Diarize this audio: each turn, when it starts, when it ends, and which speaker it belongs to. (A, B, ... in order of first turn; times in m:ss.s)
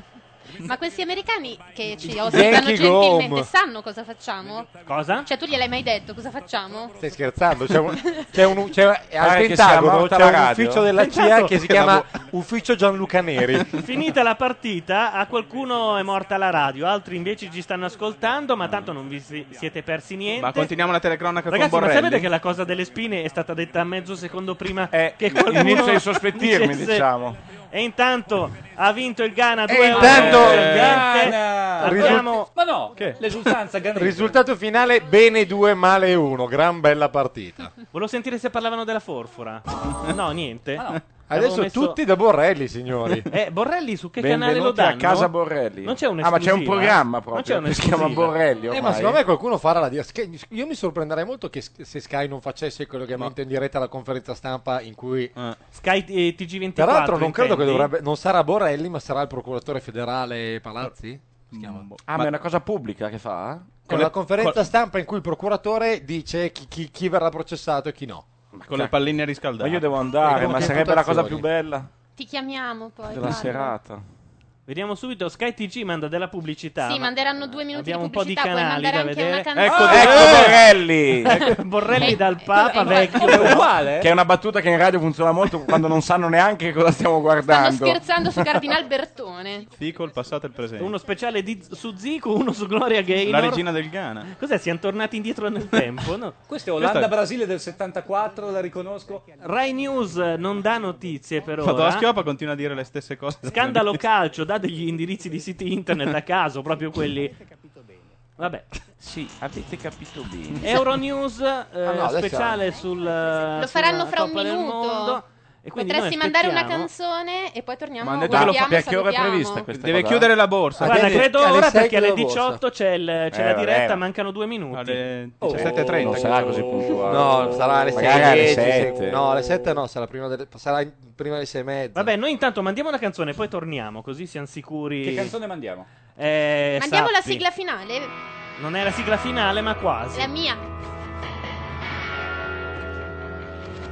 0:00.6-0:04.7 A
0:02.0-0:03.5 B
0:04.9-0:05.3 C
0:05.2-0:07.0 A
0:07.0-0:13.7 B
0:08.1-0:08.4 A
0:09.2-0:10.8 D
0:10.9-0:12.1 C
0:13.7-0:20.7 C
0:20.4-0:22.3 E
0:21.5-0:27.0 C
0:24.9-0:27.4 D
0:27.7-0:33.1 C
0:29.7-0:30.8 B
0:29.9-0:34.4 F
0:30.2-0:31.2 E
0:31.8-0:32.3 B
0:33.9-0:37.7 B
0:37.9-0:42.0 C
0:41.3-0:43.3 B
0:43.3-0:48.3 C
0:44.2-0:49.2 D
0:48.7-0:55.3 B
0:55.7-0:57.9 C
0:56.8-1:01.8 B
1:01.5-1:02.3 E
1:02.0-1:03.8 D
1:03.8-1:08.3 B
1:03.9-1:04.6 E
1:08.5-1:09.1 D
1:08.6-1:10.0 E
1:09.6-1:11.9 D
1:10.2-1:11.5 B
1:12.2-1:13.8 A
1:13.1-1:14.0 D
1:14.7-1:17.1 C
1:16.8-1:20.6 A
1:17.7-1:20.7 C
1:19.6-1:20.5 E
1:19.7-1:21.6 D
1:21.2-1:23.7 C
1:21.9-1:23.7 A
1:23.1-1:24.1 F
1:23.9-1:28.0 D
1:27.5-1:29.7 A
1:29.8-1:30.9 E
1:30.8-1:33.6 C
1:33.2-1:34.3 E
1:34.2-1:36.4 C
1:36.5-1:39.2 F
1:36.8-1:37.1 E
1:39.4-1:42.1 C
1:41.6-1:44.0 E
1:43.4-1:47.4 C
1:48.4-1:48.7 C
1:49.0-1:50.7 D
1:50.6-1:56.9 C
1:51.8-1:52.6 B
1:53.6-1:59.7 A
1:58.0-1:58.7 E
1:58.3-2:00.4 D
1:59.7-2:01.3 E
2:00.8-2:02.6 B
2:00.8-2:05.0 C
2:03.3-2:04.0 D
2:04.7-2:06.6 E
2:05.4-2:09.4 F
2:05.5-2:09.4 D
2:07.1-2:12.1 B
2:11.9-2:15.4 C
2:15.0-2:15.9 F
2:16.2-2:17.4 C
2:16.8-2:18.1 A
2:18.6-2:20.3 C
2:20.1-2:20.6 A